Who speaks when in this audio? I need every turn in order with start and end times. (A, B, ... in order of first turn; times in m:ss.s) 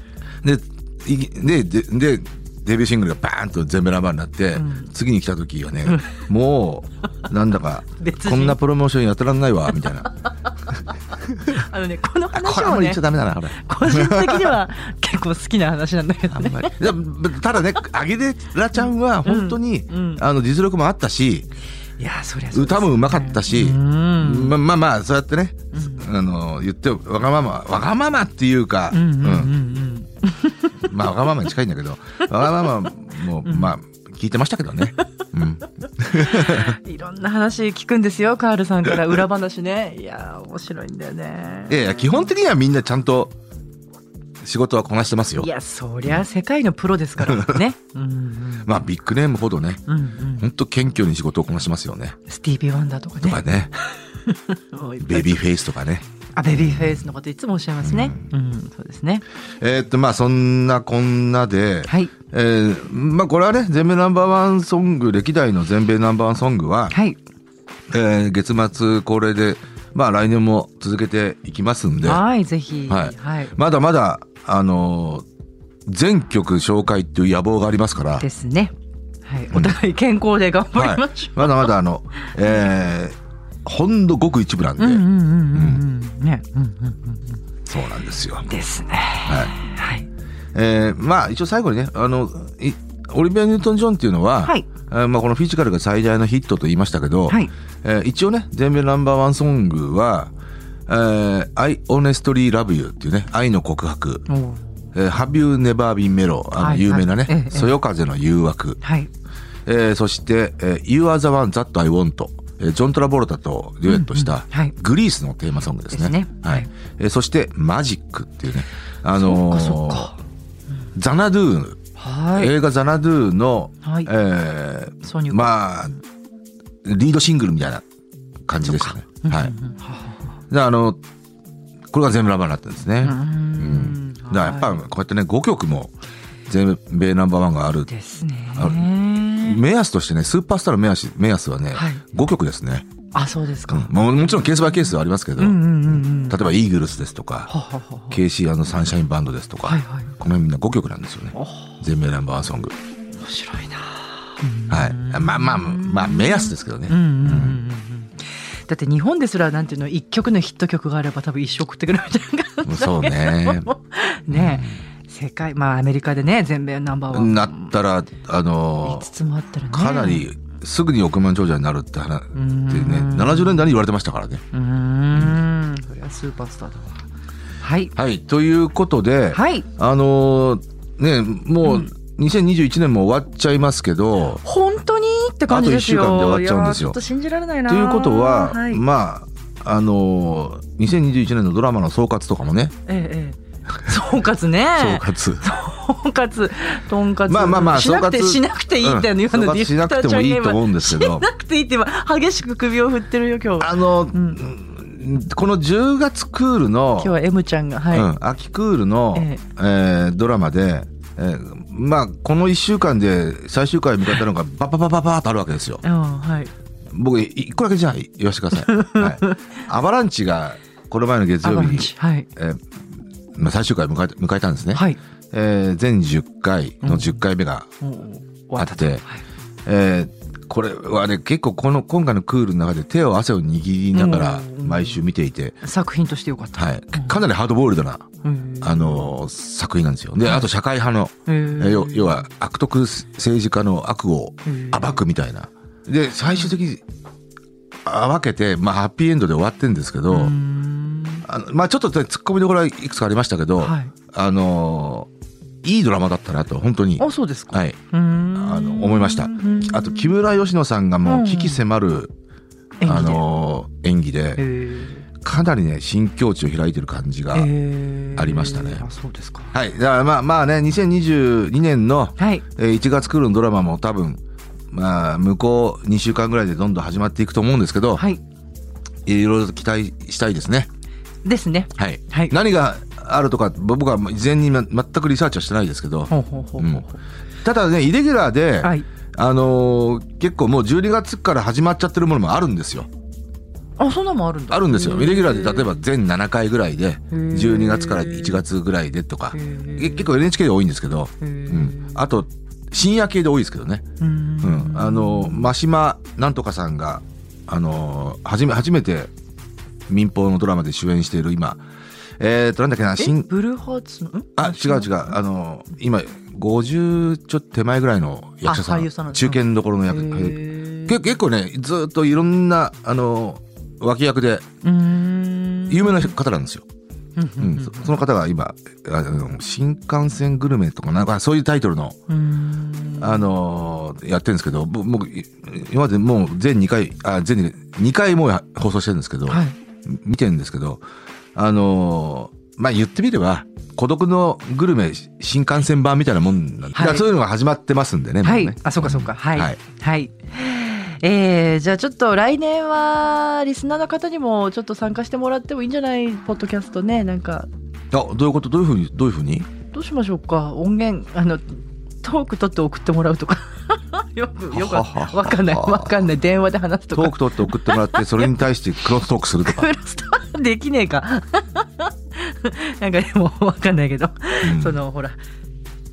0:00.4-0:10.1 A
0:04.6-0:04.9 B
0:05.9-0:06.2 B
0:08.0-0:08.6 B
0:11.3-0:13.0 B
0:12.3-0:14.6 A
0:13.6-0:16.9 B
0:16.3-0:21.5 A
0:19.2-0:20.2 B
0:22.0-0:24.6 B
0:22.5-0:29.6 A
0:25.7-0:26.1 B
0:28.9-0:30.8 B
0:30.8-0:36.8 A
0:33.4-0:33.7 B
0:36.0-0:42.2 B
0:41.7-0:43.4 A
0:44.4-0:45.5 A
0:45.4-0:48.8 B
0:47.2-0:47.6 A
0:48.6-0:49.8 A
0:49.9-0:50.5 B
0:50.4-0:52.2 A
0:52.3-0:55.4 B
0:53.2-0:53.7 A
0:55.0-0:57.1 A
0:56.4-0:59.2 B
0:57.8-0:58.3 A
0:59.6-1:07.0 A
1:01.9-1:02.1 B
1:06.9-1:07.2 B
1:07.9-1:12.2 A
1:12.0-1:13.6 B
1:12.9-1:15.2 A
1:15.9-1:18.2 A
1:18.2-1:18.7 B
1:19.2-1:21.7 B
1:20.8-1:25.8 A
1:24.8-1:27.4 B
1:27.7-1:28.5 A
1:28.5-1:30.1 B
1:29.2-1:29.5 A
1:30.5-1:40.3 A
1:40.9-1:44.3 A
1:44.3-1:44.8 B
1:44.9-1:48.8 A
1:46.6-1:47.8 B
1:48.8-1:49.1 B
1:49.7-2:00.1 A
1:53.9-1:54.8 B
1:55.9-1:56.7 B
1:59.2-2:00.2 B
2:00.9-2:01.8 A
2:02.0-2:02.5 B
2:02.3-2:05.9 A
2:03.8-2:04.1 B
2:05.0-2:05.7 B
2:06.8-2:07.8 A
2:08.5-2:09.5 A
2:08.6-2:10.2 B
2:10.5-2:11.0 A
2:11.9-2:15.9 A
2:13.0-2:14.8 B
2:16.5-2:17.9 A
2:17.9-2:19.6 B
2:18.6-2:22.9 A
2:21.8-2:22.0 B
2:23.1-2:23.9 B
2:23.7-2:27.5 A
2:25.4-2:26.5 B
2:27.5-2:28.2 B
2:28.1-2:32.7 A
2:29.6-2:30.1 B
2:31.3-2:31.8 B
2:33.2-2:47.7 B
2:34.7-2:37.6 A
2:42.6-2:43.7 A
2:44.3-2:44.8 A
2:47.1-2:49.1 A
2:48.8-2:50.3 B
2:49.7-2:54.4 A
2:52.3-2:53.7 B
2:54.5-2:56.9 B
2:55.1-2:55.4 A
2:57.6-2:58.0 B
2:58.0-3:04.4 A
2:59.3-2:59.7 B
3:01.6-3:01.9 B
3:04.4-3:08.8 B
3:05.5-3:07.0 A
3:07.7-3:12.7 A
3:12.9-3:24.4 B
3:14.8-3:15.5 A
3:17.3-3:21.3 A
3:23.6-3:27.2 A
3:27.0-3:28.1 B
3:27.9-3:35.8 A
3:29.2-3:29.4 B
3:35.8-3:36.5 B
3:36.9-3:42.6 A
3:38.6-3:39.5 B
3:41.4-3:42.3 B
3:43.4-3:47.7 A
3:44.7-3:45.0 B
3:46.8-3:47.2 B
3:47.8-3:49.2 B
3:48.6-3:49.0 A
3:49.7-3:55.6 A
3:53.9-3:55.0 B
3:55.6-3:57.2 B
3:56.6-3:58.1 A
3:58.2-3:59.1 B
3:58.6-4:06.8 A
4:01.3-4:02.2 B
4:04.5-4:05.0 B
4:07.9-4:10.3 A
4:10.1-4:11.2 B
4:11.2-4:15.1 A
4:13.6-4:13.9 B
4:15.6-4:17.8 A
4:17.0-4:20.1 B
4:18.3-4:22.1 A
4:21.0-4:21.6 B
4:22.8-4:23.2 B
4:22.8-4:24.4 A
4:24.4-4:25.0 B
4:25.2-4:27.5 A
4:27.3-4:29.5 B
4:28.2-4:28.8 A
4:29.5-4:34.2 A
4:32.2-4:32.4 B
4:34.7-4:38.0 A
4:38.0-4:38.2 B
4:39.1-4:40.7 A
4:41.2-4:42.4 B
4:41.8-4:46.9 A
4:46.1-4:47.0 B
4:47.4-4:52.9 A
4:53.8-4:55.7 B
4:54.5-5:03.8 A
4:57.1-4:58.4 B
4:59.3-5:00.1 B
5:01.2-5:02.0 B
5:04.0-5:05.5 B
5:04.4-5:09.1 A
5:09.9-5:11.6 A
5:12.2-5:13.3 A
5:13.0-5:15.2 B
5:14.4-5:24.5 A
5:18.4-5:21.0 B
5:24.6-5:26.1 B
5:25.7-5:26.6 A
5:27.2-5:27.9 B
5:27.4-5:32.0 A
5:32.1-5:33.3 B
5:33.0-5:40.8 A
5:39.3-5:39.6 B
5:41.4-5:49.6 A
5:46.8-5:47.1 B
5:48.2-5:57.5 B
5:57.9-5:59.5 A
5:59.7-6:08.4 B
6:04.5-6:06.0 A
6:06.9-6:09.7 A
6:09.4-6:15.2 B
6:14.4-6:14.8 A